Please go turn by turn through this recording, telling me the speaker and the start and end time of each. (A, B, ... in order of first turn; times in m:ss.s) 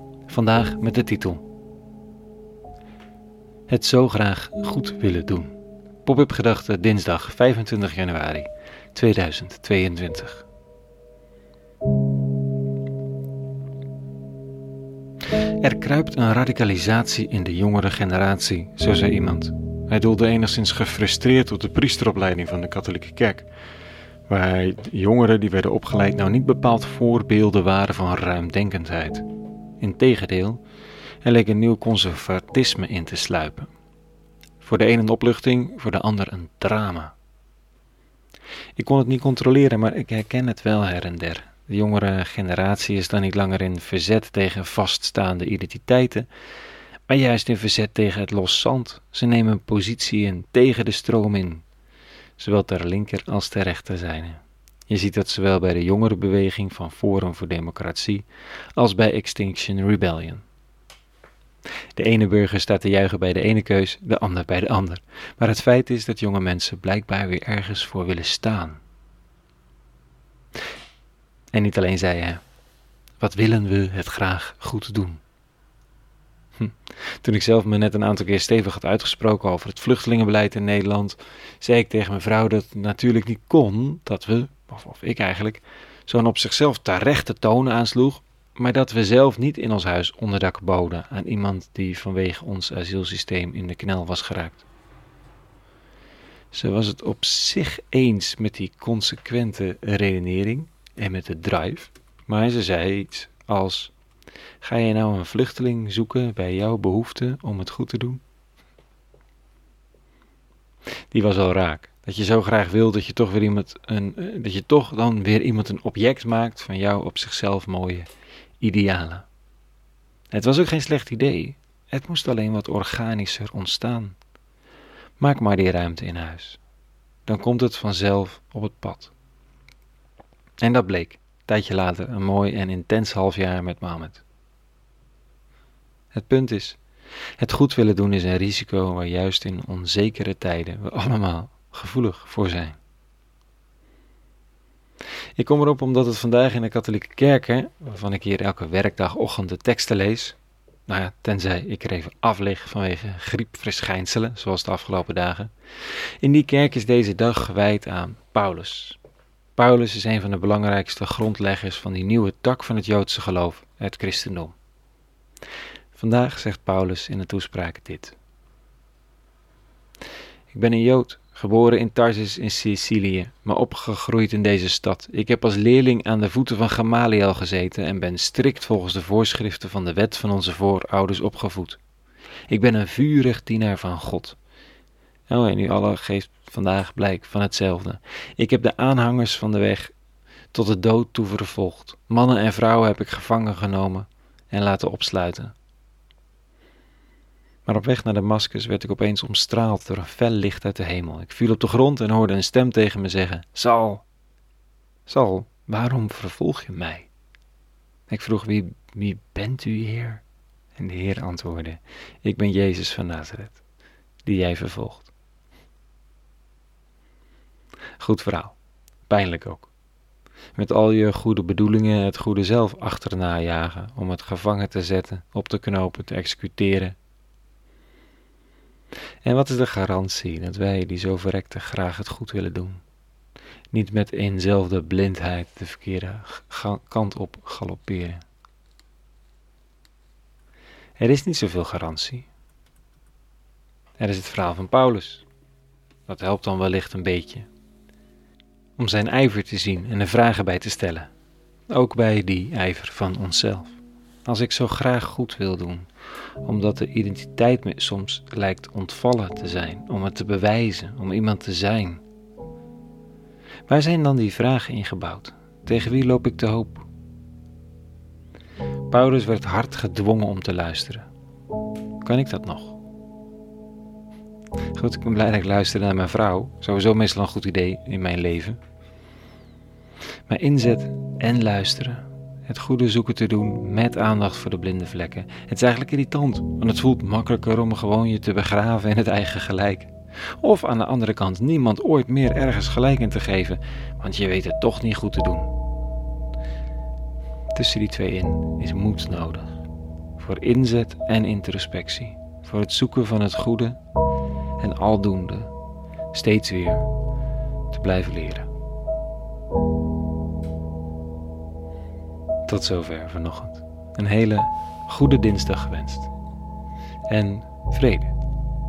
0:00.3-0:01.4 A
0:03.7-0:10.5 A
0:15.4-0:23.5 A
0:24.3-0:29.2 A
0:29.8-0:30.6 A
0:31.2-0:33.7 A
0:34.6-0:37.2 A
0:38.8-0:46.3 A
0:47.1-0:51.6 A
0:52.4-1:00.4 A
1:02.0-1:08.8 A
1:11.5-1:12.4 A
1:13.2-1:15.2 A
1:16.6-1:34.6 A
1:36.5-1:43.9 A
1:44.6-1:48.2 A
1:51.1-1:58.1 A
1:58.6-1:59.3 A
2:00.3-2:04.2 A
2:05.2-2:06.6 A
2:07.3-2:09.1 A
2:10.6-2:14.2 A
2:16.1-2:16.8 A
2:17.4-2:22.8 A
2:25.4-2:39.0 A
2:39.6-2:44.6 A
2:45.9-2:48.2 A
2:50.5-3:01.8 A
3:02.5-3:04.4 A
3:05.3-3:09.9 A
3:10.5-3:15.6 A
3:17.7-3:24.0 A
3:25.1-3:27.1 A
3:28.1-3:30.2 A
3:30.8-3:33.6 A
3:34.2-3:35.1 A
3:38.0-3:38.6 A
3:39.1-3:39.7 A
3:40.6-3:47.0 A
3:49.2-3:52.8 A
3:53.7-3:58.2 A
4:01.0-4:02.3 A
4:04.0-4:05.2 A
4:06.1-4:07.5 A
4:08.8-4:11.1 A
4:11.7-4:15.9 A
4:16.4-4:22.0 A
4:23.7-4:26.9 A
4:28.9-4:31.1 A
4:32.0-4:32.8 A
4:34.7-4:38.6 A
4:40.3-4:55.6 A
4:57.5-4:59.6 A
5:00.2-5:03.8 A
5:04.6-5:05.5 A
5:06.1-5:06.9 A
5:07.7-5:08.5 A
5:12.5-5:16.1 A
5:17.1-5:18.2 A